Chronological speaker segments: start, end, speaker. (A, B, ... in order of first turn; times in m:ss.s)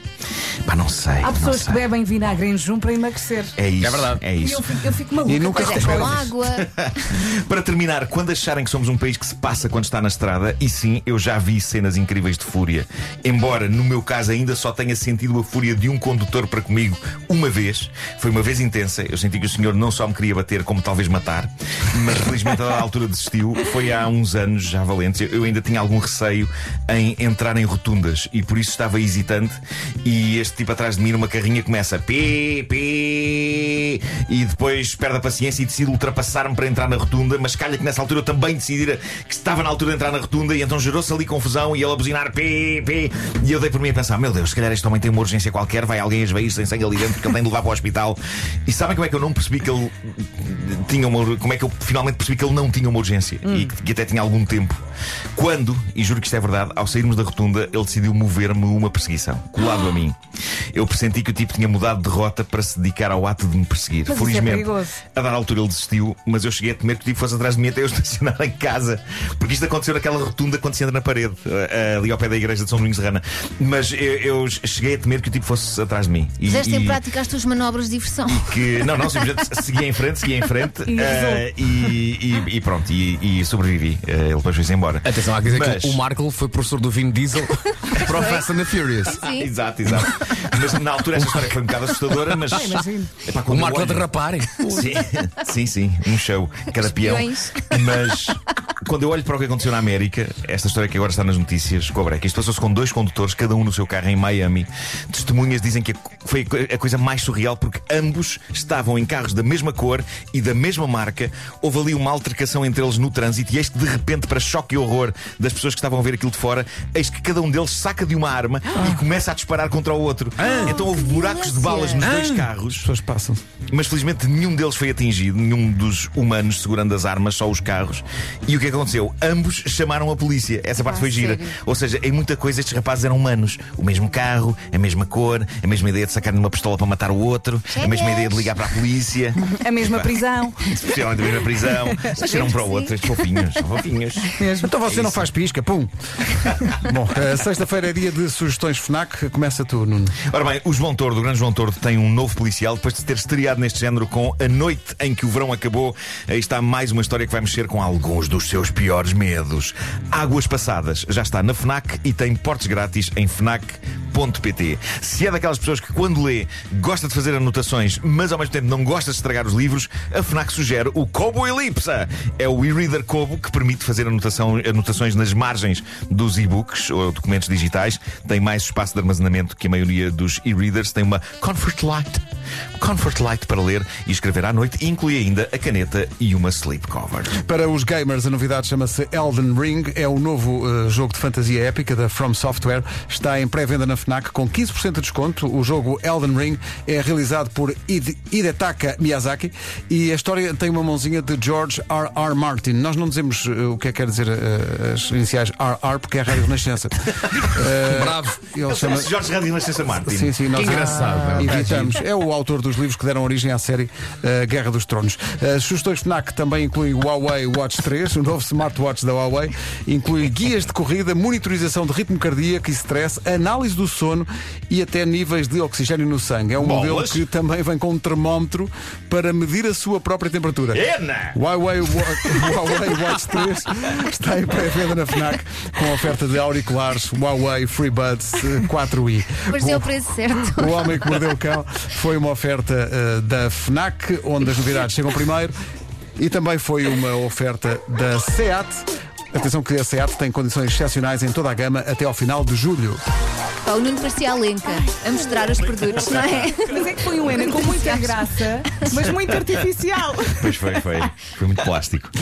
0:00.6-0:01.9 A
0:01.2-0:03.6 B
0:03.6-0:04.7 A
0:03.8-0:04.2 C
0:04.4-0:06.2 B
0:05.2-0:06.3 D
0:05.4-0:06.6 E
0:05.8-0:54.8 A
0:53.4-0:53.7 B
0:55.3-1:00.2 A
1:00.7-1:17.0 A
1:04.1-1:05.0 B
1:16.5-1:19.2 E
1:18.3-1:26.0 A
1:20.9-1:21.5 B
1:25.0-1:29.2 C
1:28.0-1:28.5 E
1:29.0-1:29.5 E
1:29.2-1:34.1 A
1:32.3-1:32.8 C
1:32.5-1:33.1 B
1:33.5-1:34.9 C
1:34.6-2:02.9 A
1:36.8-1:37.8 E
2:00.4-2:00.8 D
2:00.7-2:02.0 E
2:02.0-2:03.4 D
2:03.7-2:25.3 A
2:10.8-2:11.6 E
2:17.7-2:18.5 E
2:19.5-2:20.8 B
2:21.8-2:22.1 B
2:22.3-2:22.9 E
2:24.4-2:24.7 B
2:24.6-2:25.9 D
2:26.7-2:30.2 D
2:30.2-3:02.2 A
3:02.8-3:07.3 A
3:07.3-3:29.1 D
3:27.8-3:28.4 C
3:28.7-3:30.4 A
3:29.9-3:50.8 D
3:30.5-3:32.0 C
3:46.6-3:47.2 A
3:50.7-3:51.4 A
3:51.3-3:59.8 D
3:59.5-4:00.9 E
4:00.4-4:05.5 D
4:06.2-4:13.0 D
4:13.6-4:19.1 E
4:16.7-4:20.6 B
4:20.4-4:22.1 A